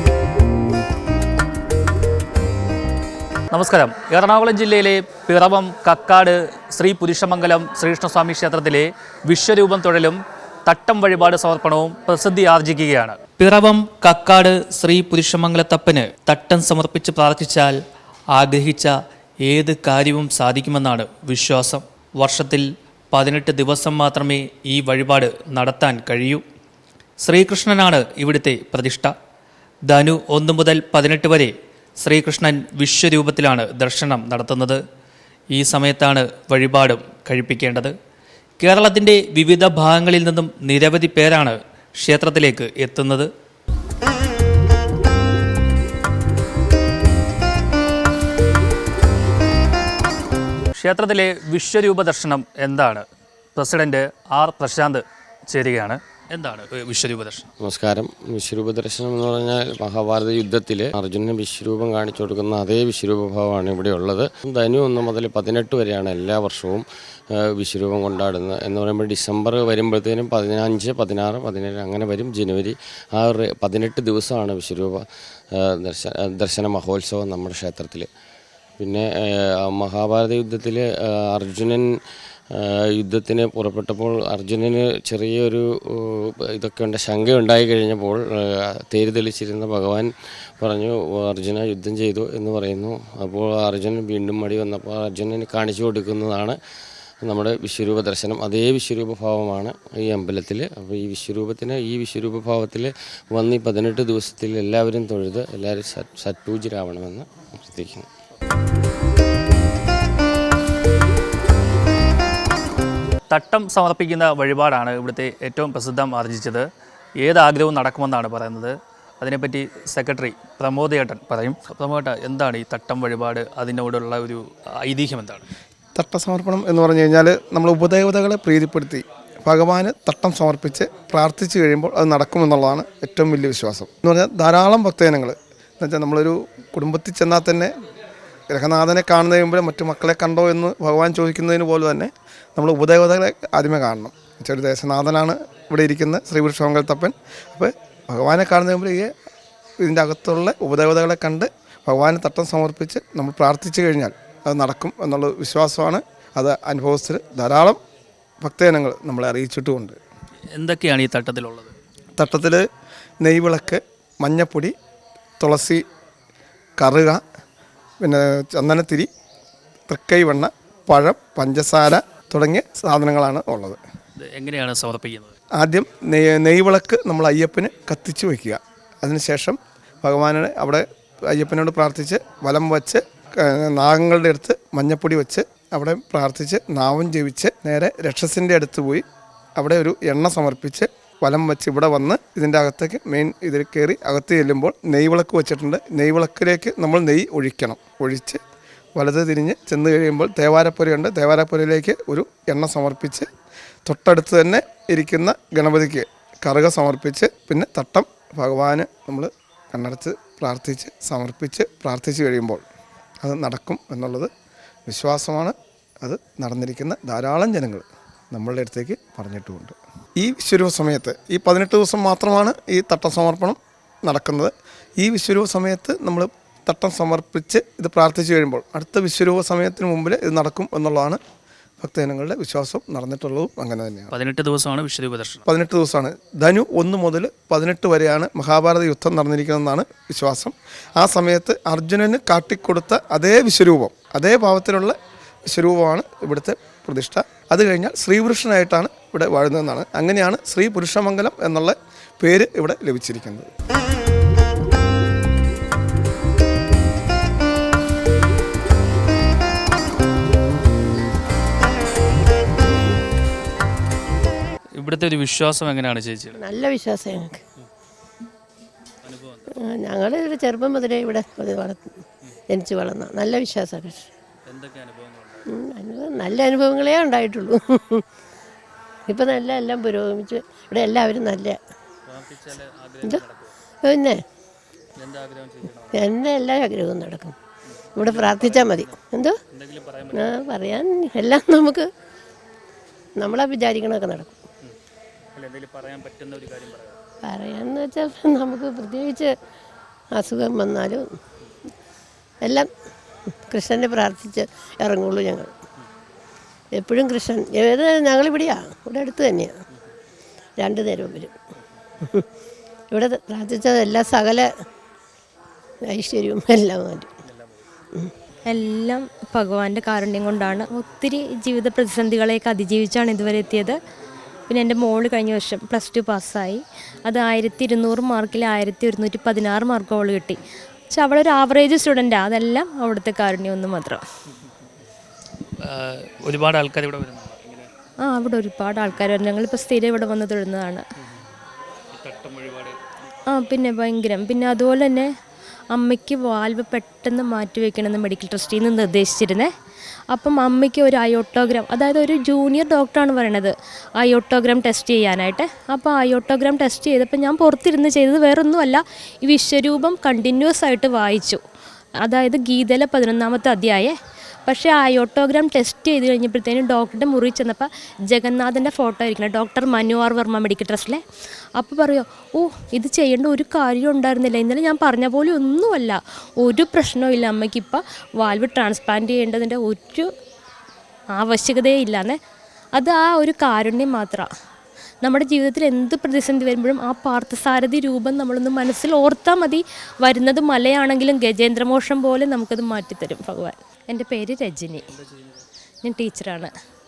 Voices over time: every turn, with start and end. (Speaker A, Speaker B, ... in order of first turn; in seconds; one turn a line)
Speaker A: 3.5-17.8
Speaker A: 18.3-18.9
Speaker A: 19.4-26.4
Speaker A: 27.2-29.1
Speaker A: 29.9-34.8
Speaker A: 35.5-37.9
Speaker A: 38.6-43.3
Speaker A: 50.8-53.0
Speaker A: 53.5-57.5
Speaker B: 57.6-66.8
Speaker B: 67.5-75.0
Speaker B: 75.5-78.1
Speaker B: 78.8-81.9
Speaker B: 82.6-90.1
Speaker B: 90.6-96.5
Speaker B: 97.2-108.0
Speaker A: 113.3-116.7
Speaker A: 117.2-125.4
Speaker C: 126.0-137.7
Speaker C: 138.5-149.1
Speaker C: 149.8-157.8
Speaker C: 158.4-160.0
Speaker A: 160.6-161.7
Speaker C: 162.2-162.6
Speaker C: 163.2-164.7
Speaker C: 165.4-165.8
Speaker C: 166.8-167.2
Speaker C: 168.0-169.1
Speaker C: 169.9-173.8
Speaker A: 174.2-175.3
Speaker C: 175.6-189.0
Speaker C: 189.6-198.4
Speaker C: 198.9-203.3
Speaker C: 203.8-212.6
Speaker C: 213.2-214.3
Speaker C: 214.9-231.2
Speaker C: 231.8-234.1
Speaker A: 234.1-235.4
Speaker C: 235.5-253.5
Speaker A: 264.8-266.4
Speaker D: 266.4-267.4
Speaker A: 269.0-269.6
Speaker D: 269.9-271.8
Speaker D: 272.5-274.0
Speaker A: 274.5-275.5
Speaker D: 275.6-277.9
Speaker D: 279.1-281.5
Speaker A: 282.1-283.5
Speaker A: 285.0-286.2
Speaker D: 286.0-287.3
Speaker A: 287.9-290.5
Speaker D: 288.0-289.3
Speaker D: 290.2-291.8
Speaker D: 293.2-294.3
Speaker A: 295.4-297.0
Speaker D: 297.3-299.2
Speaker D: 300.2-301.0
Speaker D: 303.5-305.5
Speaker D: 306.8-309.5
Speaker D: 310.6-311.3
Speaker D: 313.0-314.4
Speaker D: 315.9-317.0
Speaker A: 317.3-317.6
Speaker E: 318.5-323.8
Speaker E: 324.5-330.4
Speaker E: 330.9-334.0
Speaker A: 335.7-337.7
Speaker E: 338.0-340.8
Speaker A: 341.9-342.8
Speaker E: 343.3-345.1
Speaker E: 345.7-349.5
Speaker E: 350.1-361.4
Speaker E: 362.0-363.9
Speaker E: 364.5-371.0
Speaker E: 371.6-380.1
Speaker E: 381.2-382.2
Speaker E: 382.8-384.3
Speaker E: 385.0-394.8
Speaker A: 394.9-395.4
Speaker E: 395.8-396.5